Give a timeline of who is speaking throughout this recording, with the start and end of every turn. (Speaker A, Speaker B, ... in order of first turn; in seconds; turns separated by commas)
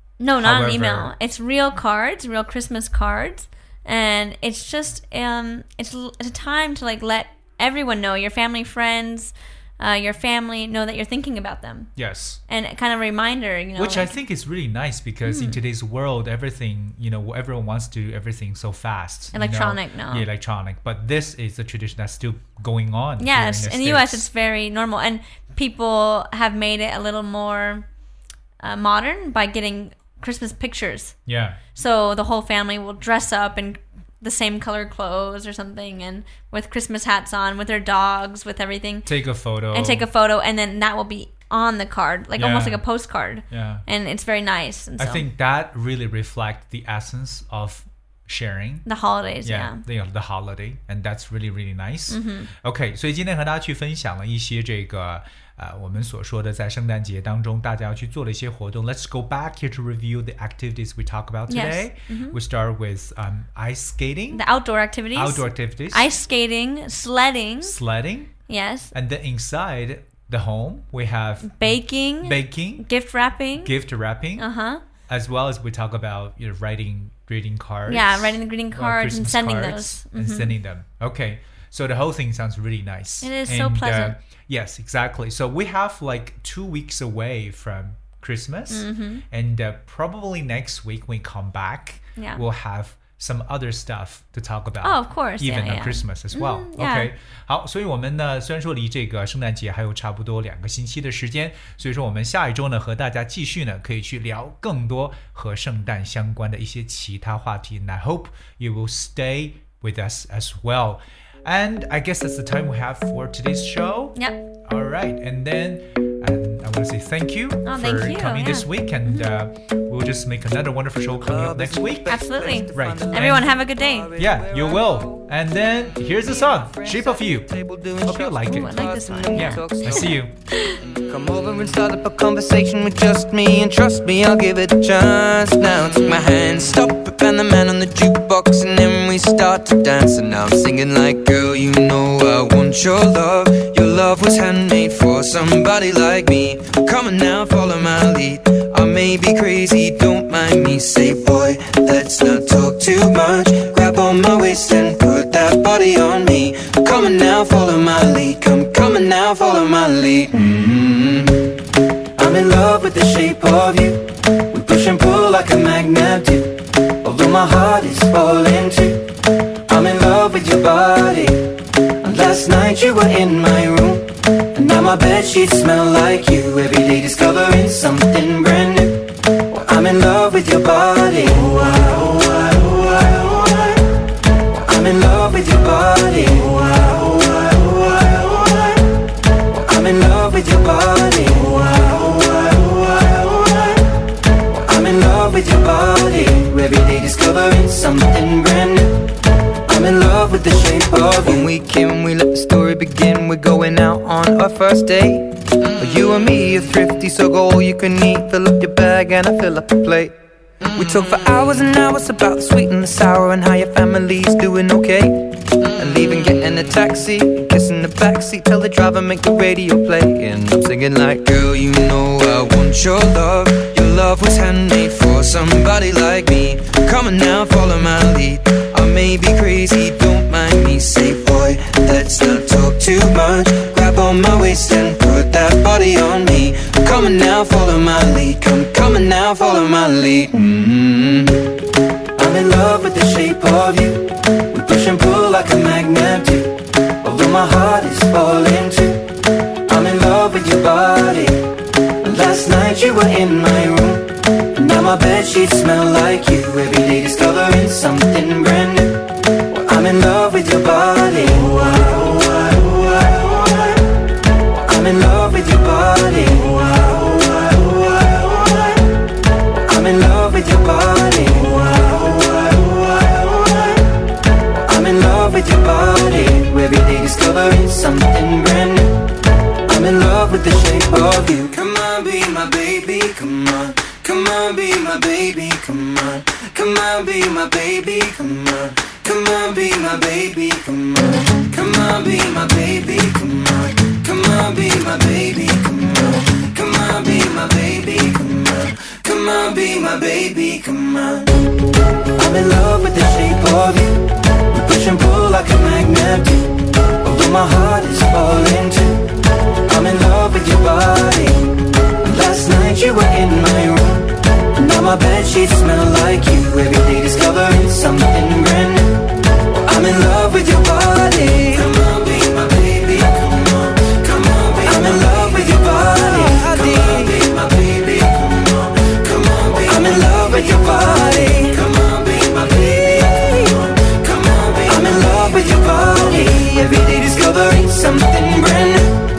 Speaker A: 0.2-11.9, Speaker B: 0.4-1.1, Speaker B: 11.9-12.4, Speaker A: 12.5-14.1, Speaker B: 13.8-24.3, Speaker A: 15.2-15.6, Speaker A: 19.3-20.3, Speaker A: 23.2-27.8, Speaker A: 28.6-31.1, Speaker B: 31.3-31.6, Speaker A: 31.7-39.1, Speaker B: 39.0-40.0, Speaker A: 39.7-45.2, Speaker B: 42.4-42.8, Speaker B: 43.5-43.8, Speaker B: 45.0-48.9, Speaker A: 48.9-49.8, Speaker B: 49.4-64.4, Speaker A: 52.1-52.5, Speaker A: 61.5-62.4, Speaker A: 64.3-67.8, Speaker B: 65.1-66.1, Speaker B: 67.6-68.3, Speaker A: 68.5-68.9, Speaker B: 68.9-72.9, Speaker A: 71.4-73.7, Speaker B: 73.6-74.5, Speaker A: 74.4-74.8, Speaker B: 75.1-122.2, Speaker A: 77.8-80.5, Speaker A: 83.2-84.1, Speaker A: 88.7-89.2, Speaker A: 92.2-92.4, Speaker A: 94.8-97.1, Speaker A: 117.6-119.3, Speaker C: 121.2-125.3, Speaker A: 122.1-124.1, Speaker B: 122.7-123.5, Speaker B: 124.2-130.3, Speaker C: 126.0-130.2, Speaker A: 128.4-130.8, Speaker C: 130.8-161.4, Speaker C: 162.2-169.0, Speaker C: 169.7-171.4, Speaker C: 172.0-183.8, Speaker C: 184.5-188.8, Speaker C: 189.5-193.8, Speaker C: 194.5-199.1, Speaker C: 199.7-210.1, Speaker C: 210.7-241.4, Speaker C: 242.2-249.1, Speaker C: 249.7-251.4, Speaker C: 252.0-263.8, Speaker C: 264.5-268.8, Speaker C: 269.5-273.9, Speaker C: 274.5-279.1, Speaker C: 279.6-301.4, Speaker C: 302.1-339.0